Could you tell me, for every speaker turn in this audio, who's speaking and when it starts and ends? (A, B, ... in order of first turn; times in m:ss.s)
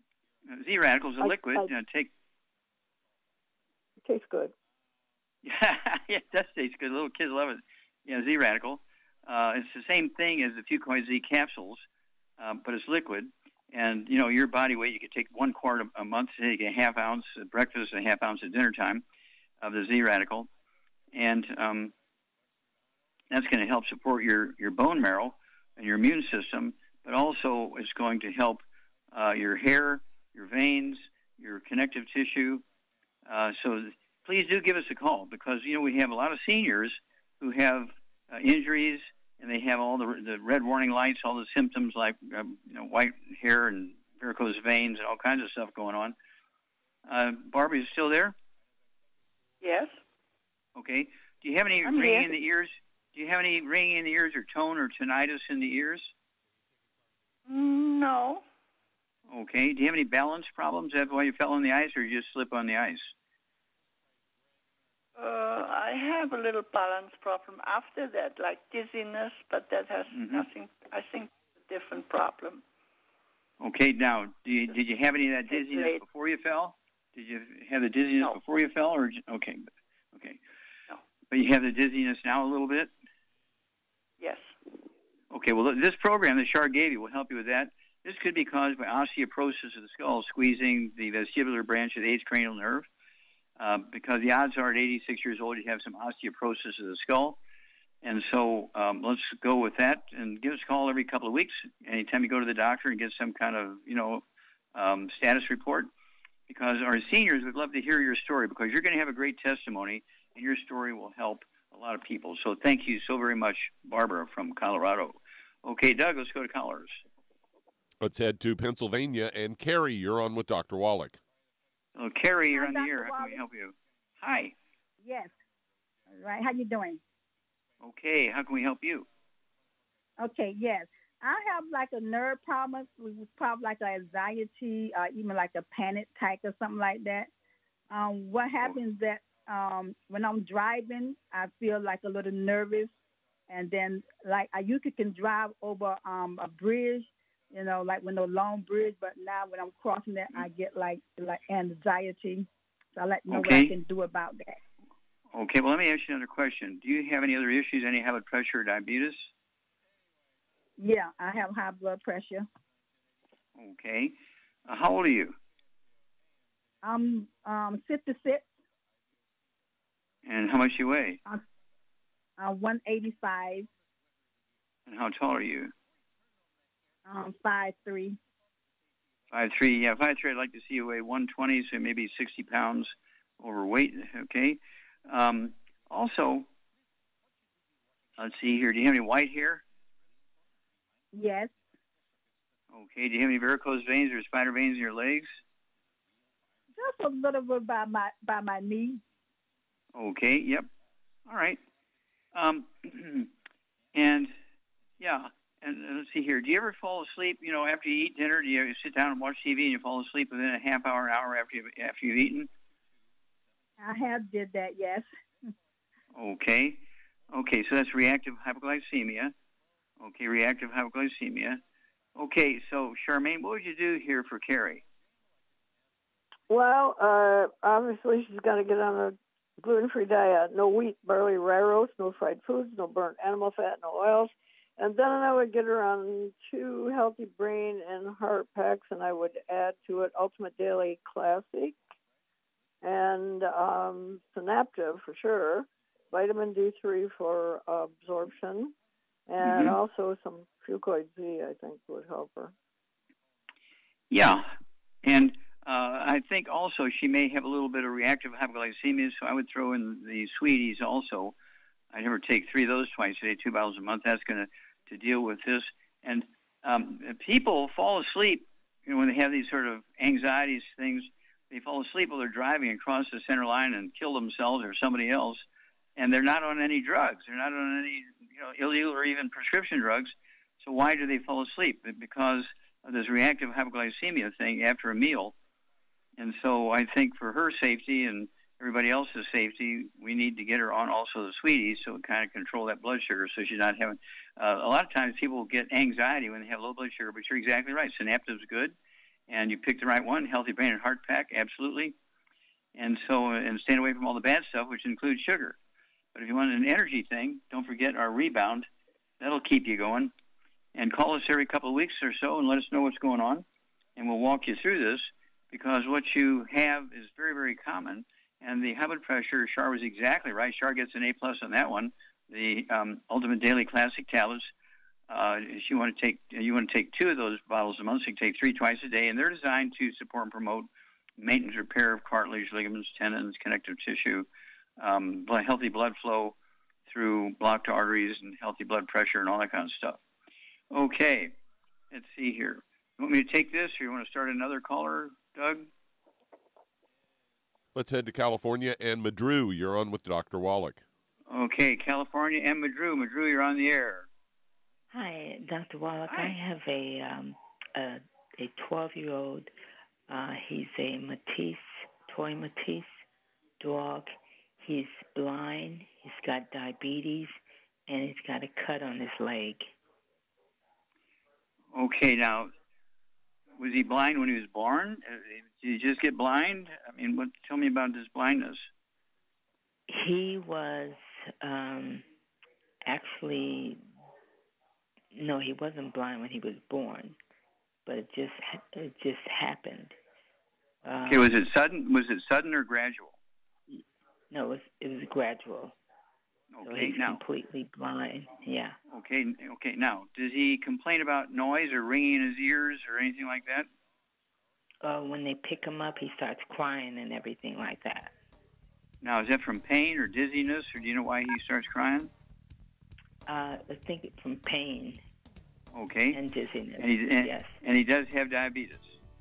0:00.5-0:02.1 A
0:01.2-0:01.7 B
0:04.0-0:04.5 B
0:05.4-0:11.8 A
0:12.4-0:19.0 A
0:19.6-0:20.5 A
0:21.1-0:21.9 A
0:23.3-0:32.6 A
0:33.2-0:46.1 A
0:47.1-0:48.4 A
0:49.6-0:50.0 C
0:50.8-0:56.1 A
0:51.8-0:52.3 C
0:57.4-0:58.4 C
0:59.3-1:03.1 A
1:05.2-1:12.6 C
1:10.1-1:10.5 A
1:13.6-1:20.4 A
1:15.5-1:16.0 C
1:21.3-1:22.9 A
1:24.2-1:24.8 C
1:25.3-1:32.9 A
1:33.6-1:37.4 A
1:38.0-1:44.2 A
1:44.7-1:45.9 A
1:46.5-1:57.0 A
1:58.0-2:01.2 D
2:02.0-2:04.5 A
2:02.5-2:03.4 E
2:05.0-2:05.3 E
2:06.1-2:07.0 E
2:07.8-2:09.1 A
2:10.2-2:17.3 E
2:17.9-2:22.9 E
2:23.5-2:34.6 E
2:33.3-2:33.7 A
2:35.3-2:39.3 A
2:40.8-2:42.5 E
2:43.6-2:44.2 A
2:44.7-2:45.4 A
2:46.8-2:48.4 E
2:50.2-2:51.2 A
2:52.4-2:53.7 E
2:54.9-2:55.7 A
2:57.0-2:58.2 E
2:59.3-3:06.5 A
3:08.2-3:09.6 A
3:11.1-3:11.5 E
3:12.7-3:15.3 A
3:16.8-3:19.0 E
3:19.9-3:20.7 A
3:21.3-3:21.6 A
3:22.3-3:23.3 A
3:23.9-3:24.3 A
3:25.0-3:32.5 A
3:33.8-3:35.1 E
3:36.1-3:39.3 A
3:40.0-3:41.6 A
3:42.1-3:44.8 A
3:46.5-4:01.8 B
4:02.8-4:08.7 B
4:09.3-4:12.5 B
4:09.4-4:09.8 A
4:14.1-4:14.5 A
4:15.0-4:21.3 A
4:21.9-4:35.4 A
4:36.0-4:45.3 A
4:46.2-4:58.8 A
4:59.3-5:02.0 A
5:02.7-5:05.6 A
5:06.1-5:08.7 A
5:09.2-5:10.1 A
5:10.7-5:13.4 A
5:14.0-5:24.5 A
5:25.1-5:36.4 A
5:36.9-5:40.0 A
5:40.7-5:41.4 A
5:41.9-5:45.7 A
5:47.7-5:50.8 D
5:51.3-5:54.1 A
5:54.9-5:59.5 F
5:56.1-5:56.4 A
6:00.1-6:03.0 F
6:03.6-6:09.7 F
6:11.7-6:12.5 A
6:13.6-6:18.6 A
6:19.9-6:22.0 F
6:22.8-6:23.8 F
6:25.1-6:27.2 F
6:27.8-6:30.0 F
6:30.8-6:31.4 F
6:31.1-6:33.2 A
6:33.7-6:35.8 F
6:36.5-6:37.2 A
6:36.6-6:38.8 F
6:38.9-6:43.7 A
6:44.8-6:48.1 F
6:49.0-6:52.1 A
6:53.3-6:55.0 F
6:55.7-6:56.2 A
6:56.1-6:57.5 F
6:56.8-6:59.0 A